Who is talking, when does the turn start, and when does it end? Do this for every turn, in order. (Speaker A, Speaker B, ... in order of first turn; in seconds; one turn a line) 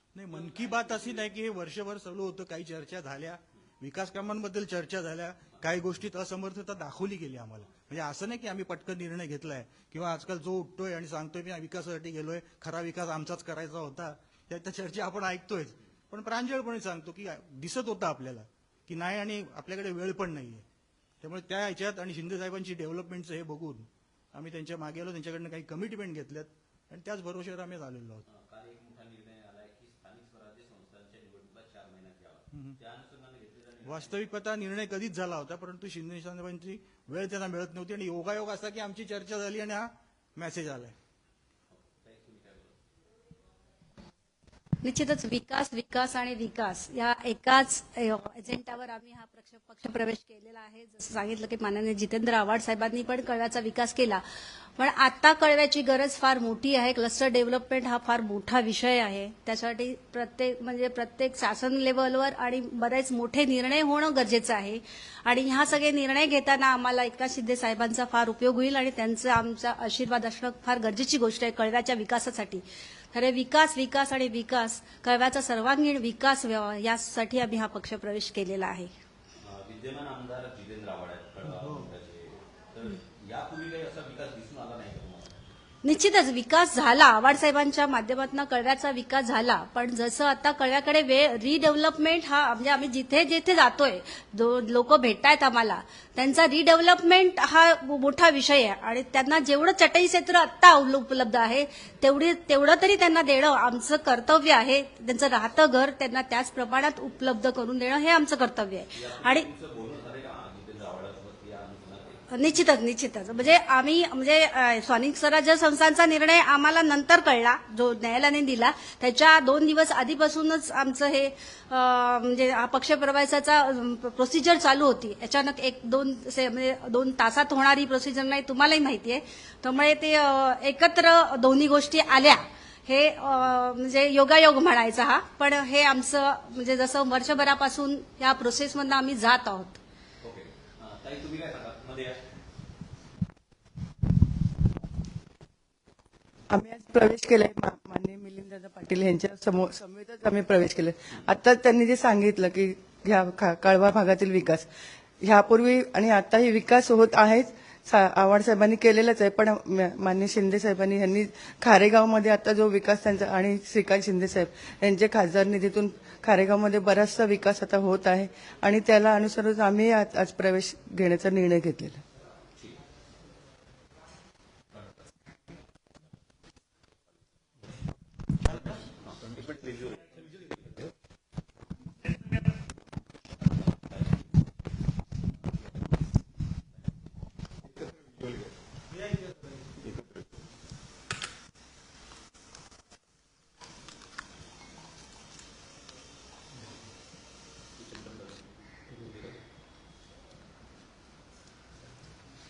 Speaker A: 0.1-20.7
Speaker B: 0.3-1.3
Speaker B: 5.5-5.8
Speaker A: 21.2-28.2
Speaker B: 28.2-34.3
Speaker A: 32.5-32.8
Speaker A: 33.9-41.0
Speaker B: 41.7-42.8
Speaker C: 44.8-54.2
Speaker C: 54.8-79.0
Speaker B: 79.4-85.5
Speaker C: 85.8-109.5
Speaker B: 108.9-112.3
Speaker C: 112.3-139.8
Speaker B: 140.2-142.2
Speaker D: 146.5-154.7
Speaker D: 155.2-172.0
Speaker B: 179.0-180.9
Speaker B: 197.8-199.4